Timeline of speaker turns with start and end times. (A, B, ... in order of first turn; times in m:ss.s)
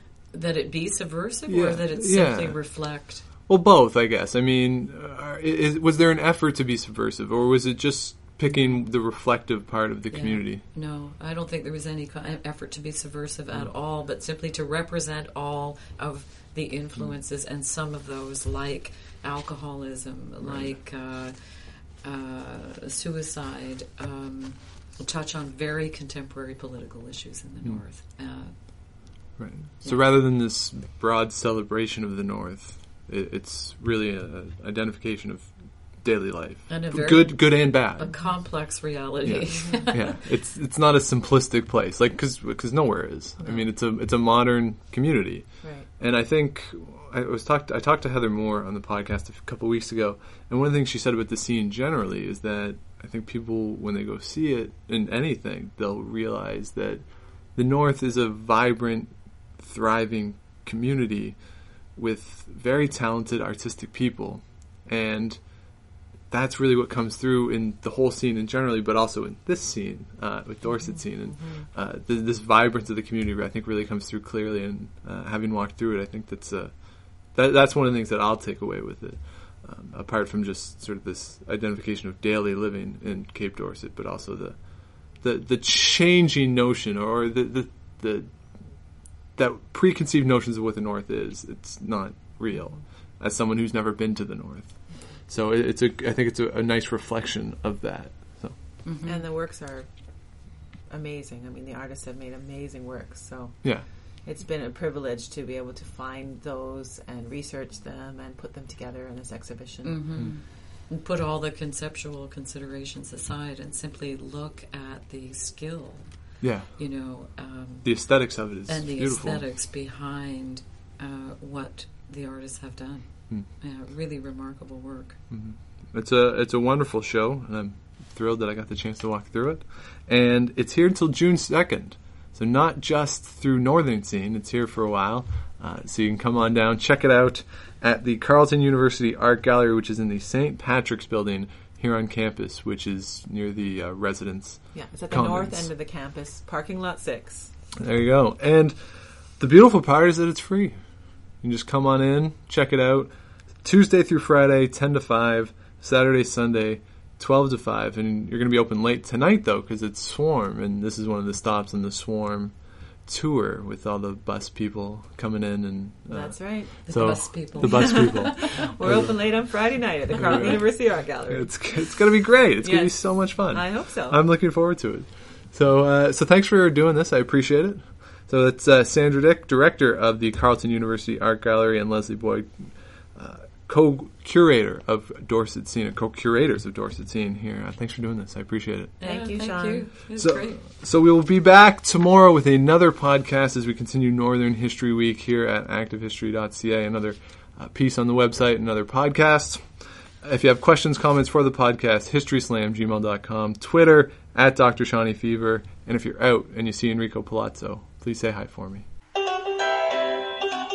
0:00.3-0:03.3 A
0:01.5-0:10.6 B
0:10.1-0:30.1 A
0:20.4-0:20.8 B
0:29.4-0:38.5 B
0:36.7-0:40.2 A
0:38.1-0:38.4 C
0:39.2-1:38.8 B
0:39.5-0:40.0 C
0:43.4-0:43.7 C
0:45.6-0:45.9 C
1:10.7-1:11.7 C
1:32.5-1:32.8 C
1:38.8-1:39.2 A
1:39.0-1:50.3 C
1:49.8-2:05.2 A
1:56.4-1:56.8 B
1:57.8-1:59.4 B
2:05.3-2:25.7 B
2:24.7-2:27.5 C
2:27.8-3:08.9 B
2:46.1-2:54.2 C
2:46.8-2:48.4 A
3:09.0-3:10.6 A
3:09.0-3:09.9 C
3:10.2-3:28.8 B